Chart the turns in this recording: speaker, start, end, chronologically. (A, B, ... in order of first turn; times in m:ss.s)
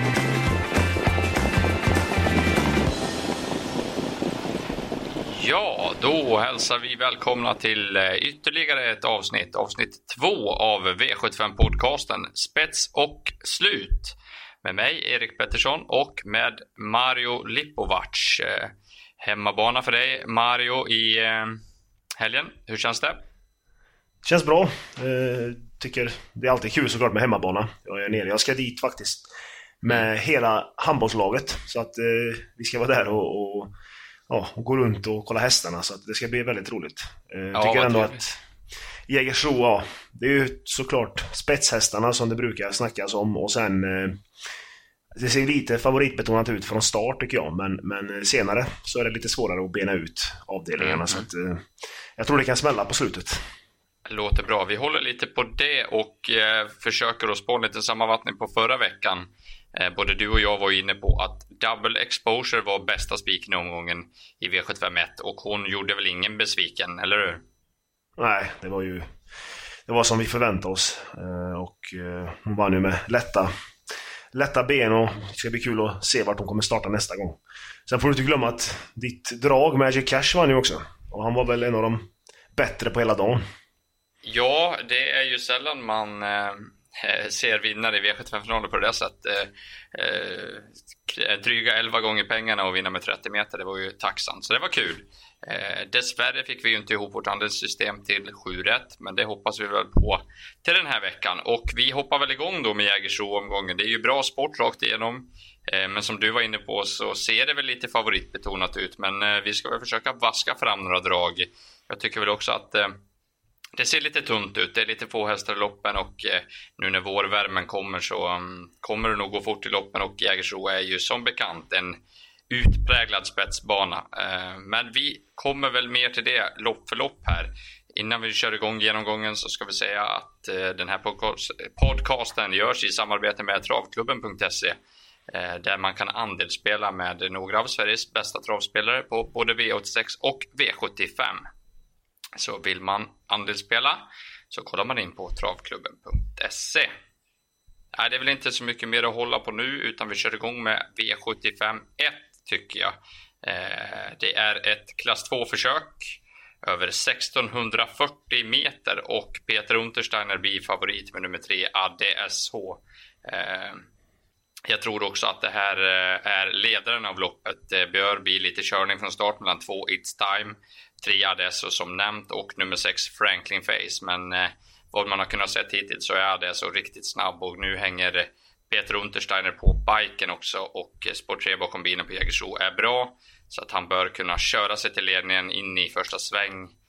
0:05.2-0:21.6 A
0:22.2-0:23.2 A
0:24.2-0:29.3 B
0:29.8-0:33.7 B
0:34.3-0:38.4 B
0:37.5-0:38.2 A
0:39.1-0:44.2 B
0:45.2-0:51.6 B
0:50.8-0:51.3 A
0:52.2-0:53.4 B
0:54.0-1:07.4 A
1:08.2-1:09.0 B
1:09.9-1:13.5 B
1:14.3-1:22.0 B
1:22.5-1:23.4 B
1:24.2-1:53.0 A
1:53.8-2:14.8 A
2:15.3-2:21.4 A
2:22.4-2:26.9 A
2:27.9-2:43.8 A
2:44.7-3:06.7 A